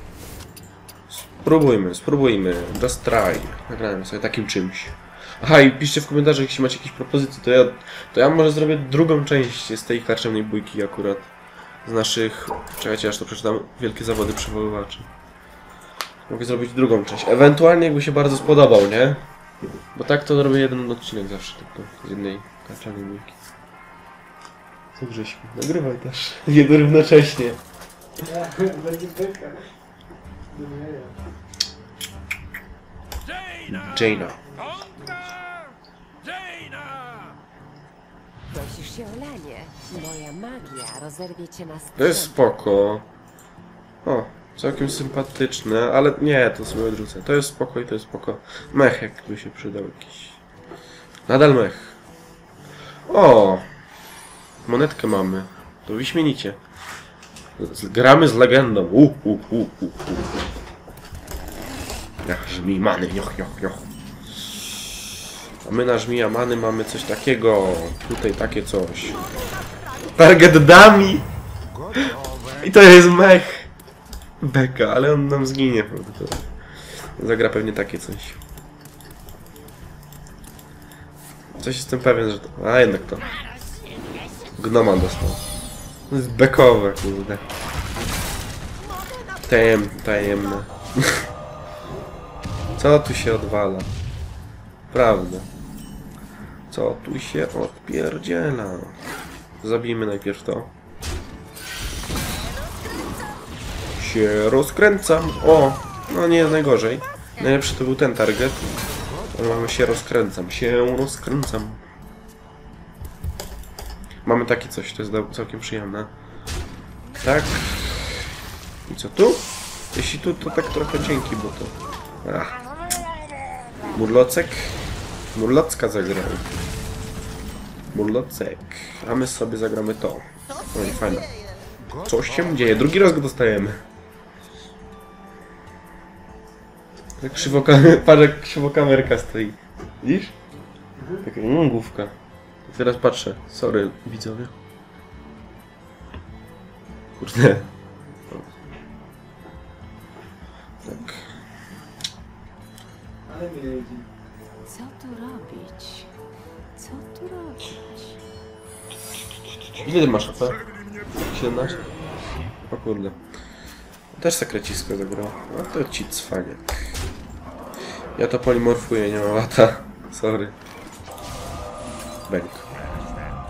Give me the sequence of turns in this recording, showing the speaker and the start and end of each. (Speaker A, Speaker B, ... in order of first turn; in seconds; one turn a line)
Speaker A: 1.1-11.3
Speaker A: 11.8-15.1
Speaker A: 16.3-19.2
Speaker A: 19.9-23.4
Speaker A: 24.9-27.6
Speaker B: 28.2-29.7
Speaker B: 30.5-31.2
Speaker A: 33.7-34.4
Speaker B: 34.5-35.4
Speaker C: 38.5-42.3
Speaker A: 42.0-43.1
Speaker A: 44.0-50.4
Speaker A: 51.3-52.0
Speaker A: 53.1-53.6
Speaker A: 54.6-56.6
Speaker A: 57.6-60.4
Speaker A: 62.2-63.9
Speaker A: 65.6-69.2
Speaker A: 70.0-71.3
Speaker A: 71.9-73.7
Speaker A: 74.4-76.5
Speaker A: 77.2-78.4
Speaker A: 81.6-83.3
Speaker A: 84.6-85.4
Speaker A: 86.1-87.5
Speaker A: 89.4-91.3
Speaker A: 92.8-93.9
Speaker A: 94.9-95.5
Speaker A: 96.7-99.0
Speaker A: 99.6-100.7
Speaker A: 104.0-108.7
Speaker A: 109.3-111.8
Speaker A: 114.2-116.1
Speaker A: 117.2-118.3
Speaker A: 118.9-122.6
Speaker A: 123.9-126.6
Speaker A: 127.9-131.3
Speaker A: 132.0-133.8
Speaker A: 137.2-140.3
Speaker B: 141.0-141.3
Speaker A: 141.2-142.1
Speaker A: 142.7-144.5
Speaker A: 147.2-147.7
Speaker A: 150.8-151.3
Speaker B: 153.3-154.1
Speaker C: 154.7-156.1
Speaker C: 156.8-158.2
Speaker A: 159.8-161.9
Speaker A: 162.6-163.2
Speaker A: 164.1-167.0
Speaker A: 168.2-170.6
Speaker A: 172.3-172.7